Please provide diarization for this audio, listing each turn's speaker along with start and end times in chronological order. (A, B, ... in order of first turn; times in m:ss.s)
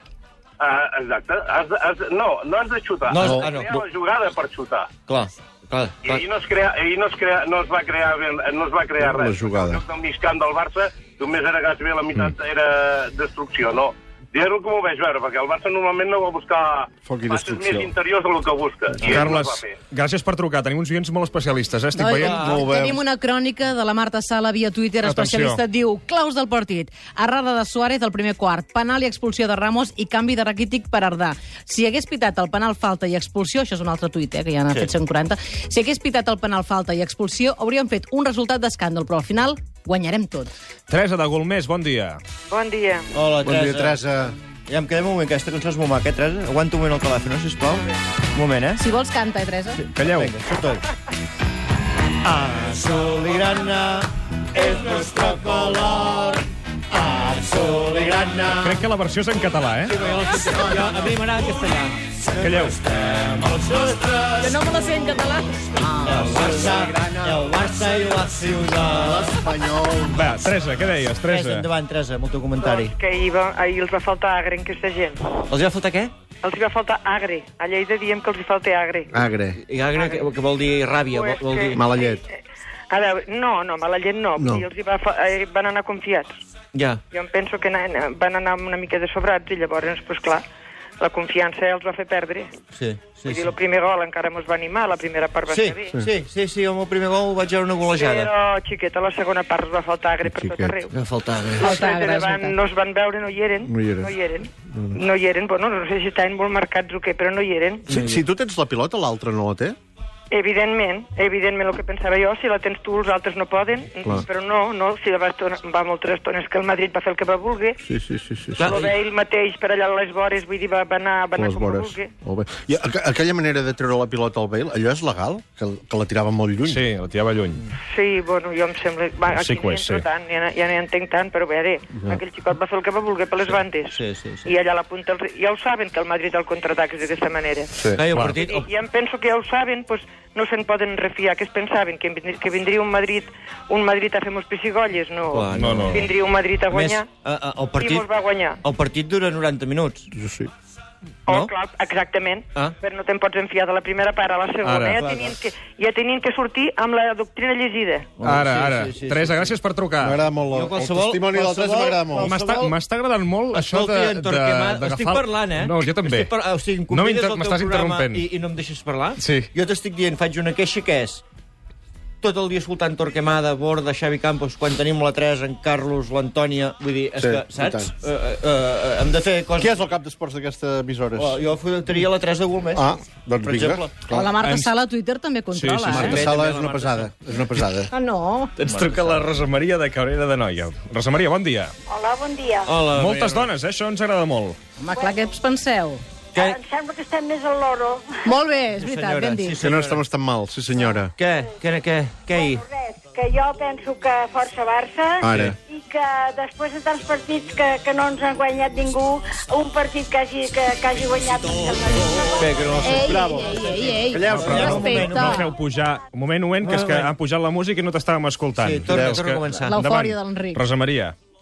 0:00.6-0:04.9 A
0:03.1-0:03.8 B
0:03.2-0:03.5 C
0:05.1-0:06.2 B
0:06.0-0:19.8 A
0:09.0-0:09.8 C
0:17.0-0:17.9 C
0:19.0-0:19.3 B
0:19.1-0:22.5 D
0:21.9-0:40.5 E
0:22.2-0:23.0 C
0:22.2-0:22.6 B
0:25.0-0:25.6 D
0:34.7-0:35.0 B
0:40.9-0:42.2 D
0:42.5-0:43.1 F
0:43.1-0:48.9 B
0:43.4-0:44.3 C
0:48.8-0:49.8 E
0:49.7-0:50.8 B
0:49.9-0:50.3 D
0:52.2-0:58.8 B
0:58.6-1:00.0 D
0:59.9-1:04.7 B
1:00.5-1:00.9 C
1:02.4-1:02.9 D
1:04.4-1:06.2 E
1:05.7-1:09.4 B
1:06.2-1:07.9 C
1:08.9-1:10.3 C
1:10.1-1:11.7 D
1:11.2-1:12.9 B
1:12.6-1:15.2 F
1:15.5-1:16.1 B
1:16.4-1:19.1 F
1:19.1-1:19.6 C
1:19.6-1:21.9 B
1:20.0-1:20.2 F
1:21.1-1:22.2 F
1:21.7-1:22.2 C
1:22.9-1:26.4 F
1:24.4-1:24.6 C
1:26.7-1:27.0 B
1:27.1-1:30.4 F
1:31.0-1:32.5 F
1:32.7-1:33.5 B
1:33.2-1:35.9 F
1:35.5-1:38.3 B
1:37.9-1:40.9 F
1:40.2-1:40.8 C
1:40.9-1:41.8 B
1:41.6-1:47.9 F
1:41.6-1:42.6 E
1:43.6-1:44.1 C
1:44.7-1:45.0 C
1:47.9-1:49.8 C
1:47.9-1:48.2 B
1:50.3-1:57.8 F
1:57.8-1:58.8 C
1:58.6-1:58.9 B
1:58.6-2:02.1 F
2:01.4-2:06.8 C
2:06.6-2:07.6 D
2:07.9-2:27.1 F
2:09.3-2:10.0 D
2:12.0-2:12.2 C
2:13.5-2:14.5 B
2:17.8-2:18.0 C
2:17.9-2:18.7 B
2:25.3-2:26.1 B
2:25.5-2:26.0 D
2:26.7-2:28.1 B
2:27.8-2:28.6 F
2:28.6-2:30.1 B
2:30.1-2:30.5 C
2:31.2-2:38.1 F
2:34.6-2:35.0 D
2:35.0-2:35.4 B
2:38.2-2:39.6 B
2:38.2-2:40.2 D
2:40.0-2:42.4 C
2:40.4-2:42.8 B
2:42.2-2:46.3 D
2:43.5-2:51.2 B
2:46.9-2:48.2 D
2:49.2-2:49.5 D
2:52.2-2:59.8 B
2:57.2-2:57.9 C
2:59.6-3:01.4 C
3:01.2-3:02.9 B
3:02.8-3:04.4 C
3:03.4-3:04.1 B
3:04.1-3:06.2 E
3:04.4-3:04.7 D
3:05.5-3:06.3 D
3:05.8-3:07.9 C
3:06.0-3:07.1 B
3:07.9-3:08.5 E
3:08.6-3:11.7 D
3:08.6-3:09.2 B
3:11.9-3:12.8 G
3:12.6-3:13.5 B
3:12.8-3:14.6 D
3:14.8-3:16.0 E
3:14.9-3:15.3 G
3:16.3-3:16.6 B
3:16.4-3:18.2 G
3:18.2-3:19.6 E
3:18.7-3:20.0 B
3:19.6-3:21.1 C
3:21.2-3:22.7 B
3:22.3-3:32.8 G
3:25.2-3:25.6 C
3:31.6-3:35.4 B
3:32.8-3:35.5 E
3:33.0-3:35.1 C
3:34.3-3:41.1 D
3:36.6-3:37.1 B
3:38.6-3:39.8 B
3:38.8-3:39.2 C
3:39.5-3:40.6 E